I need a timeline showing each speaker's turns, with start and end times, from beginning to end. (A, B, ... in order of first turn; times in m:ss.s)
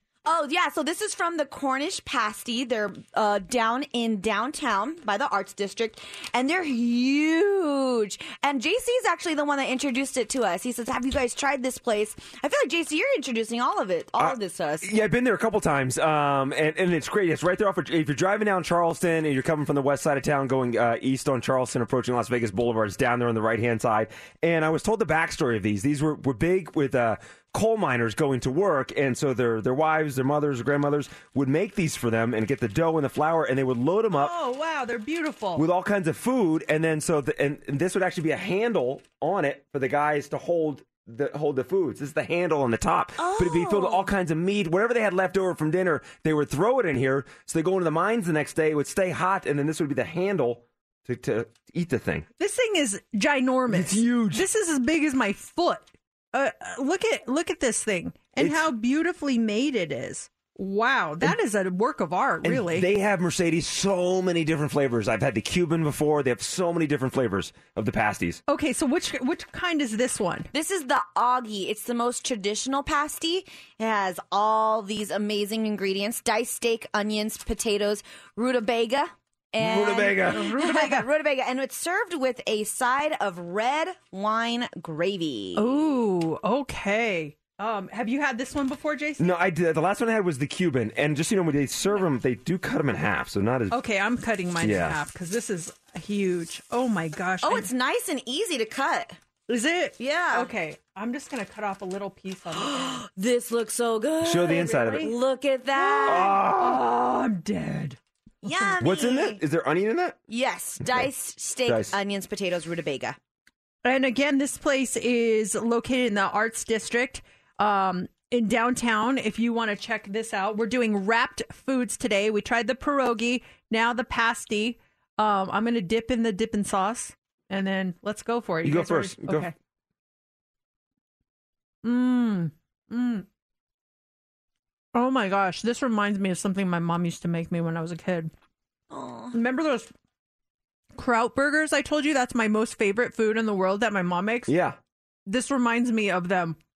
0:00.2-0:15.0 A
0:14.2-0:34.3 B
0:34.2-0:35.6 C
0:35.6-0:52.3 B
0:43.2-0:44.1 C
0:52.4-1:02.9 C
0:53.7-0:54.4 B
0:58.4-0:58.7 B
1:02.4-1:08.4 B
1:08.5-1:10.5 C
1:10.5-1:25.7 A
1:19.6-1:20.4 B
1:20.2-1:21.1 C
1:25.6-1:29.3 C
1:29.2-1:33.8 B
1:33.7-1:37.7 C
1:34.6-1:35.0 B
1:37.4-1:39.2 A
1:39.5-1:43.0 C
1:40.0-1:40.5 A
1:42.6-1:46.4 A
1:44.2-1:45.1 B
1:44.6-1:45.1 C
1:45.7-1:48.0 C
1:46.0-1:46.9 B
1:48.4-1:49.4 A
1:48.8-1:50.2 B
1:50.3-1:53.2 A
1:50.8-1:51.1 B
1:51.6-1:51.9 B
1:53.8-2:09.5 C
2:08.6-2:09.5 B
2:11.8-2:13.3 C
2:14.9-2:18.3 C
2:18.9-2:19.3 A
2:19.3-2:19.9 C
2:20.9-2:24.5 C
2:24.5-2:24.8 B
2:25.3-2:26.6 C